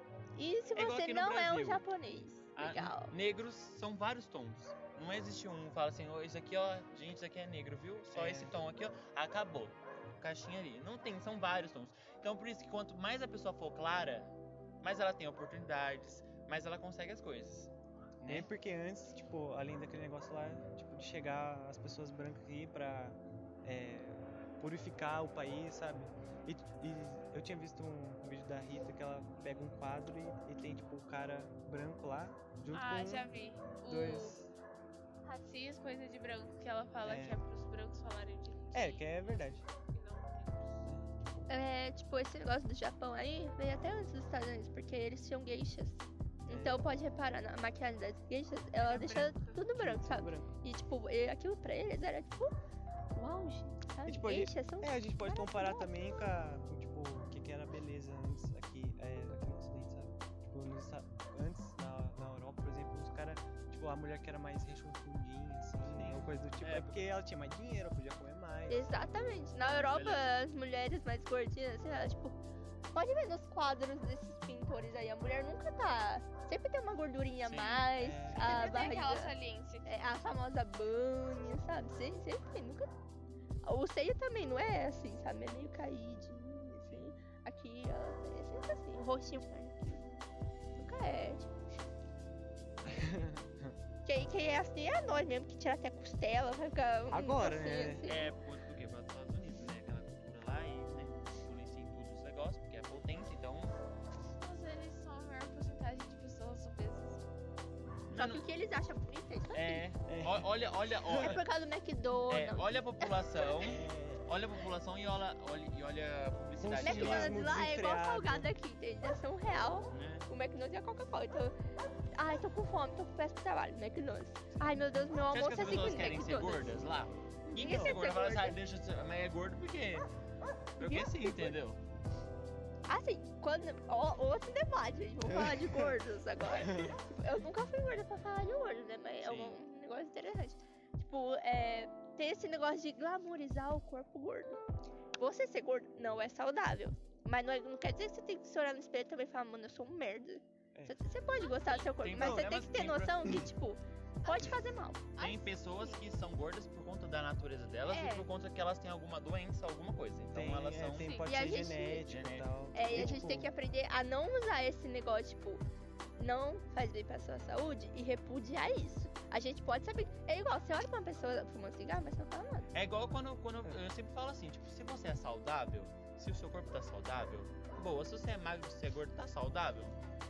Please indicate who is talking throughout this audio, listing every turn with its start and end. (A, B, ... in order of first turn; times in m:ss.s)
0:00.4-0:03.1 A
0:00.7-0:01.8 B
0:02.6-0:18.5 B
0:08.1-0:08.5 C
0:18.3-0:33.3 C
0:32.7-0:34.4 D
0:33.9-0:34.5 C
0:35.2-0:40.9 D
0:37.0-0:37.4 C
0:38.7-0:39.6 C
0:41.5-0:52.6 A
0:46.5-0:46.9 C
0:48.8-0:49.7 D
0:49.8-0:50.5 C
0:53.1-0:55.9 A
0:54.1-1:09.1 C
1:05.9-1:07.0 B
1:08.7-1:12.4 A
1:09.6-1:10.4 B
1:12.9-1:22.9 A
1:17.4-1:18.0 B
1:18.0-1:18.6 C
1:18.4-1:19.9 D
1:23.6-1:30.0 A
1:30.8-1:31.5 A
1:32.9-1:33.8 C
1:34.0-1:38.3 A
1:37.1-1:38.1 C
1:38.0-1:43.8 B
1:44.4-1:47.2 D
1:48.1-1:48.4 B
1:48.2-1:49.9 A
1:49.5-1:51.5 B
1:50.1-1:51.4 C
1:51.2-1:53.8 A
1:52.3-1:57.4 B
1:53.7-1:54.3 C
1:56.6-1:58.5 C
1:56.8-2:01.5 A
1:59.9-2:00.2 B
2:02.2-2:06.9 A
2:05.3-2:10.1 B
2:07.5-2:08.6 A
2:07.6-2:08.0 C
2:10.8-2:11.8 B
2:10.8-2:11.6 A
2:12.9-2:24.6 A
2:19.2-2:19.6 B
2:25.2-2:35.0 A
2:31.3-2:32.0 D
2:32.0-2:33.5 B
2:32.1-2:32.5 C
2:34.2-2:34.5 D
2:35.2-2:36.0 D
2:35.2-2:41.2 B
2:37.9-2:38.3 D
2:40.3-2:43.5 C
2:41.0-2:41.6 D
2:41.2-2:42.1 A
2:42.0-2:43.2 B
2:42.7-2:45.6 A
2:46.2-2:52.7 A
2:52.7-3:00.0 B